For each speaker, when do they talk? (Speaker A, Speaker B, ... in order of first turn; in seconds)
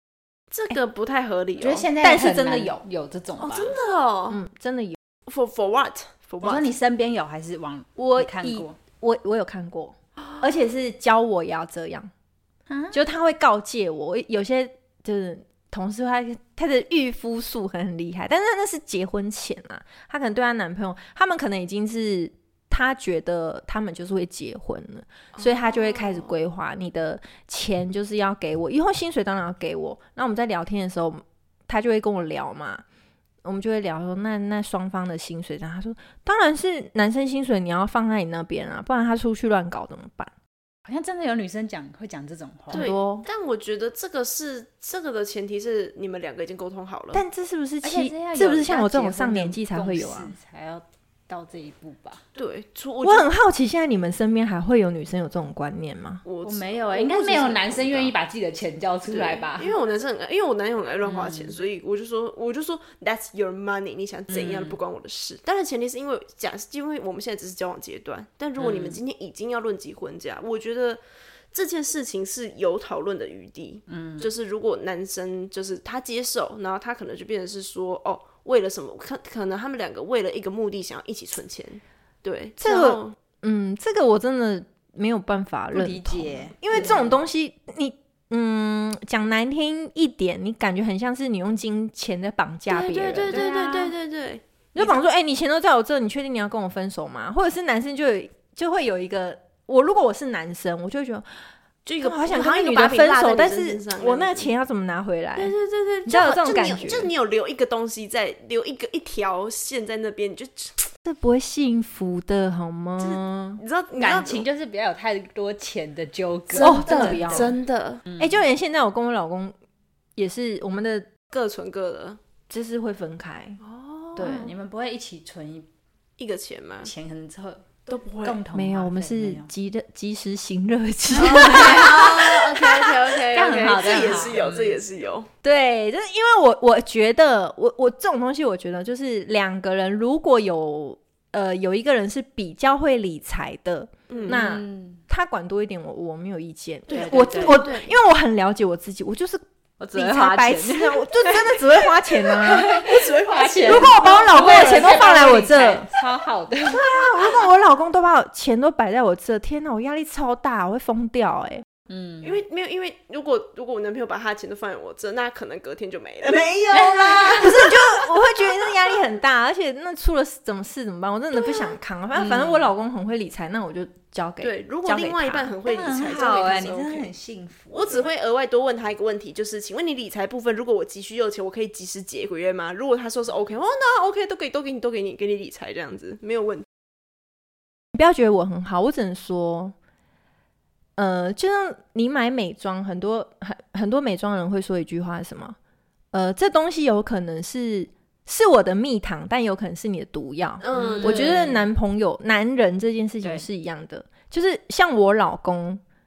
Speaker A: 0.5-1.9, 3.4-4.4, 5.3-6.7, 25.3-26.3, 42.7-47.2, 52.4-53.3, 56.2-58.1, 59.1-83.2, 92.7-95.0, 101.8-104.5, 105.3-110.8, 113.0-114.4, 116.5-118.0, 121.3-122.2, 123.6-124.5, 126.2-126.9, 127.9-128.4, 131.1-135.3, 144.1-144.5, 146.9-147.9, 152.4-155.3, 162.2-168.0, 174.4-177.1, 177.7-186.7, 200.6-201.5
Speaker B: 1.6-3.8, 6.4-8.8, 12.7-13.0, 40.9-42.9, 47.8-52.2, 56.4-59.7, 61.0-61.5, 64.3-64.8, 68.6-69.0, 73.9-74.3, 85.7-87.0, 93.3-93.9, 114.0-117.5, 118.1-118.4, 124.2-125.7, 126.8-129.5, 131.1-134.8, 144.2-145.0, 146.9-147.7, 149.8-157.0, 161.9-162.4, 166.7-167.5, 172.2-172.7, 175.6-177.9, 200.7-201.6
Speaker C: 2.0-2.8, 4.3-5.0, 8.0-12.1, 12.9-32.8, 33.4-40.3, 42.7-43.2, 47.1-50.3, 53.0-56.2, 82.6-93.5, 94.7-101.2, 102.0-105.5, 106.0-107.1, 111.0-113.6, 116.6-117.5, 118.2-119.5, 120.2-121.1, 122.5-123.6, 124.2-124.5, 128.5-132.2, 135.4-149.4, 149.9-152.7, 153.6-155.9, 156.7-161.6, 167.3-175.5, 187.9-189.7, 191.0-195.6, 196.1-205.8